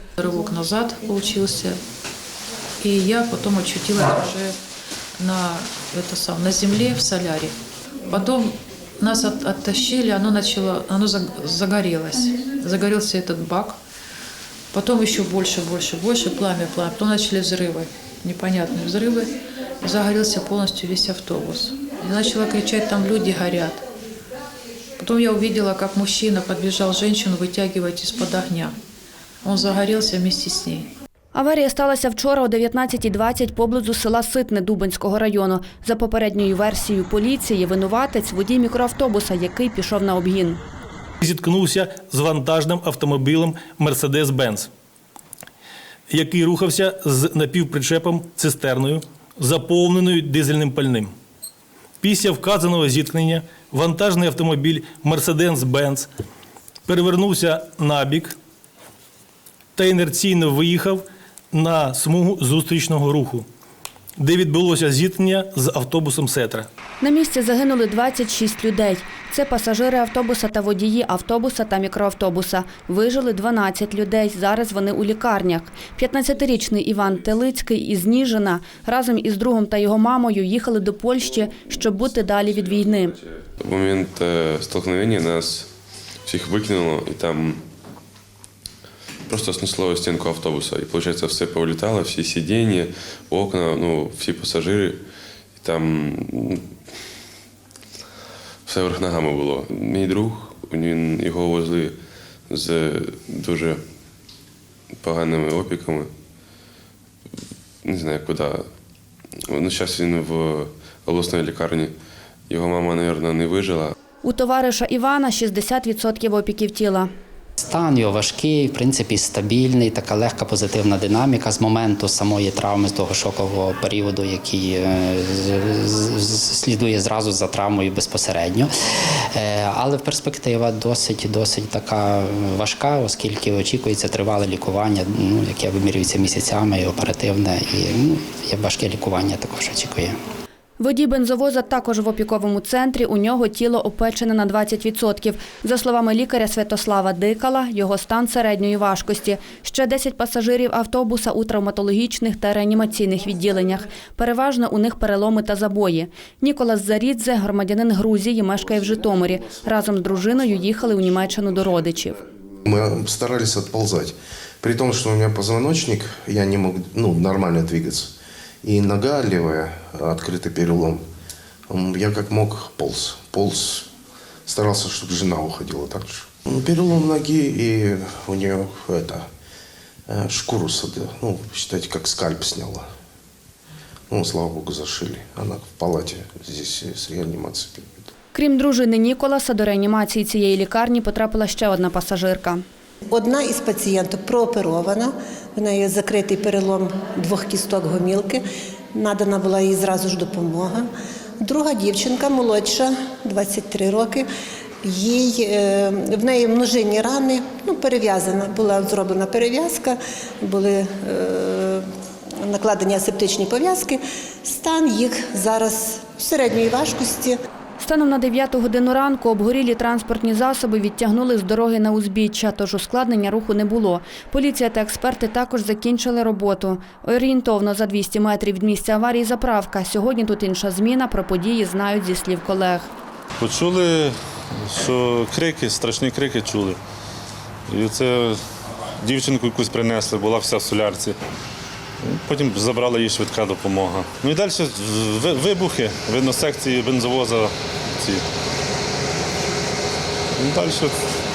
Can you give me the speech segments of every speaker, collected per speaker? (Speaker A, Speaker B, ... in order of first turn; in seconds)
Speaker A: 0.2-1.8, 2.8-4.6, 5.2-7.6, 8.1-13.8, 14.7-23.8, 25.0-28.8, 29.4-30.9
Speaker B: 31.3-40.6, 67.0-83.2, 114.2-117.1, 140.8-162.2, 188.3-192.6, 217.8-232.9
Speaker C: 41.2-44.7, 46.1-51.1, 52.0-56.1, 56.9-58.4, 59.8-63.5, 64.2-66.7
Speaker D: 82.6-85.7, 86.2-87.6, 89.3-95.0, 95.6-96.7, 98.7-102.0, 102.5-103.8, 105.0-106.1, 107.8-108.7, 109.5-111.9, 112.5-114.0
Speaker E: 117.6-140.2
Speaker F: 162.7-171.0, 171.7-173.9, 174.5-179.3, 180.1-182.9, 184.1-188.1
Speaker G: 193.1-200.9, 201.4-204.3, 204.8-211.9, 212.4-217.4
Speaker H: 233.4-236.8, 237.7-238.4, 239.1-241.2, 242.0-248.2, 250.4-250.9